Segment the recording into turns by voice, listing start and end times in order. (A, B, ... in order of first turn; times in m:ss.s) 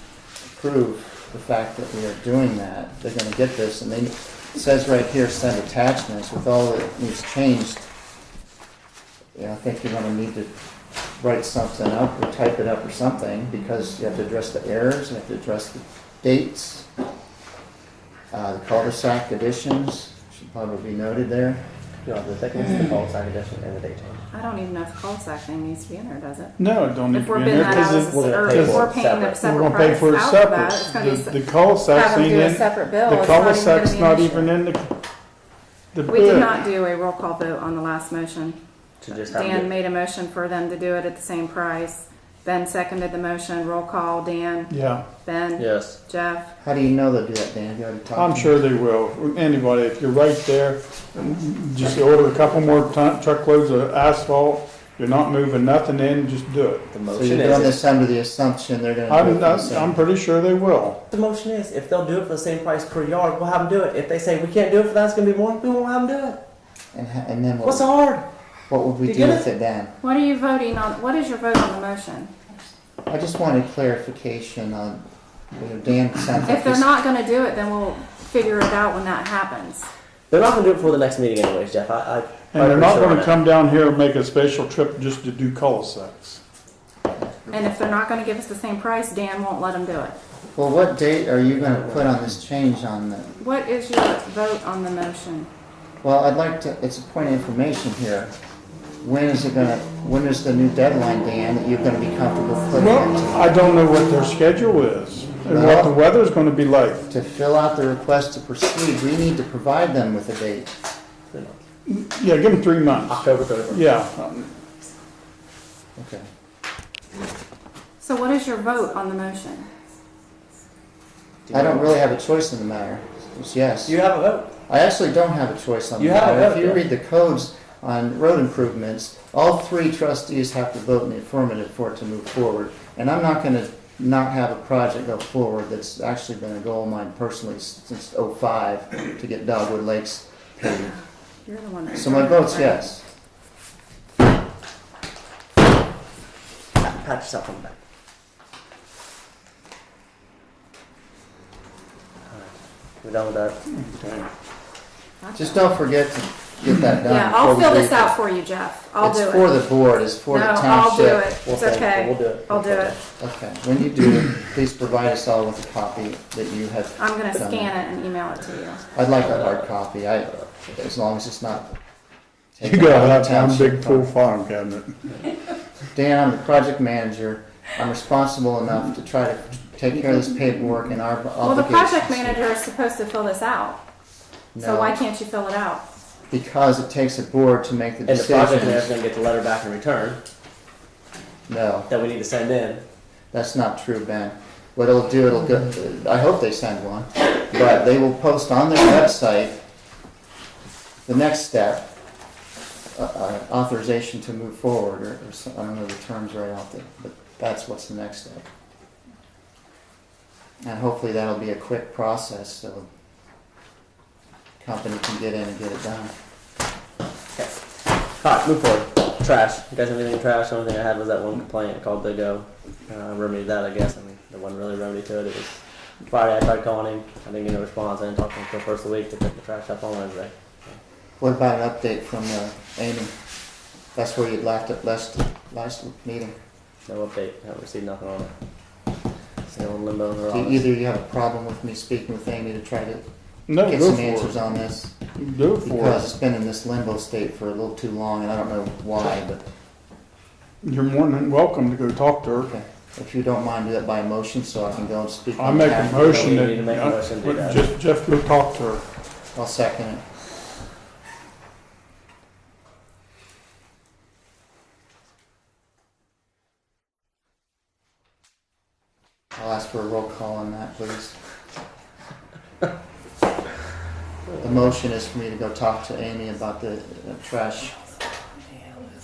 0:00.5-0:07.8 A
0:09.4-0:10.5 A
0:11.2-0:16.9 A
0:18.3-0:21.6 A
0:22.0-0:24.2 B
0:24.3-0:26.6 C
0:26.6-0:28.9 D
0:27.1-0:31.4 C
0:27.6-0:29.4 B
0:29.4-0:34.9 D
0:31.9-0:34.5 C
0:35.9-0:36.6 D
0:36.1-0:38.6 C
0:39.0-0:39.7 B
0:39.2-0:44.7 C
0:44.7-0:45.0 D
0:45.2-0:46.5 C
0:45.6-0:46.0 B
0:46.6-0:48.5 A
0:48.2-0:56.9 D
0:56.9-0:57.8 B
0:57.1-1:00.0 A
0:59.1-1:01.0 D
1:01.1-1:06.4 B
1:06.9-1:07.9 A
1:07.6-1:08.3 B
1:08.7-1:09.9 A
1:09.0-1:09.5 B
1:10.0-1:12.3 C
1:13.1-1:16.9 A
1:16.5-1:19.9 C
1:20.3-1:23.4 B
1:22.5-1:26.4 D
1:27.5-1:30.2 C
1:30.5-1:33.3 A
1:33.4-1:35.5 C
1:36.0-1:38.4 A
1:39.0-1:43.6 A
1:42.8-1:47.0 D
1:45.5-1:46.0 A
1:47.1-1:50.7 A
1:51.3-1:51.6 B
1:51.9-1:54.5 D
1:53.1-1:53.9 B
1:56.0-1:56.3 A
1:58.0-1:59.7 C
2:01.5-2:02.0 B
2:01.5-2:04.0 A
2:03.9-2:04.5 B
2:04.7-2:21.0 A
2:06.0-2:06.8 B
2:21.4-2:22.8 C
2:21.9-2:23.0 A
2:26.8-2:27.8 B
2:32.3-2:33.6 B
2:33.7-2:34.3 D
2:35.2-2:35.6 C
2:35.4-2:38.2 A
2:37.0-2:39.6 C
2:39.0-2:41.4 A
2:40.3-2:43.0 C
2:41.4-2:43.0 B
2:43.2-2:47.7 A
2:47.0-2:48.8 C
2:48.9-2:51.8 A
2:52.6-2:54.1 A
2:52.6-2:55.1 D
2:55.9-3:02.4 A
3:01.4-3:03.8 C
3:04.6-3:05.0 A
3:04.6-3:05.8 C
3:06.3-3:09.0 A
3:08.1-3:10.2 B
3:11.5-3:11.9 A
3:11.9-3:12.8 B
3:13.3-3:19.6 A
3:21.1-3:21.9 A
3:23.0-3:28.5 A
3:30.6-3:32.9 A
3:34.6-3:36.1 A
3:37.4-3:50.8 B
3:51.2-3:53.1 A
3:54.0-3:56.4 A
3:56.9-3:58.3 B
3:59.5-4:00.6 B
4:00.3-4:03.0 A
4:03.5-4:04.4 D
4:03.6-4:05.0 A
4:05.2-4:06.1 D
4:05.6-4:09.4 A
4:10.6-4:12.5 D
4:12.4-4:16.5 A
4:15.4-4:18.8 D
4:16.0-4:17.6 B
4:19.4-4:20.0 A
4:29.4-4:31.2 A
4:34.4-4:37.8 A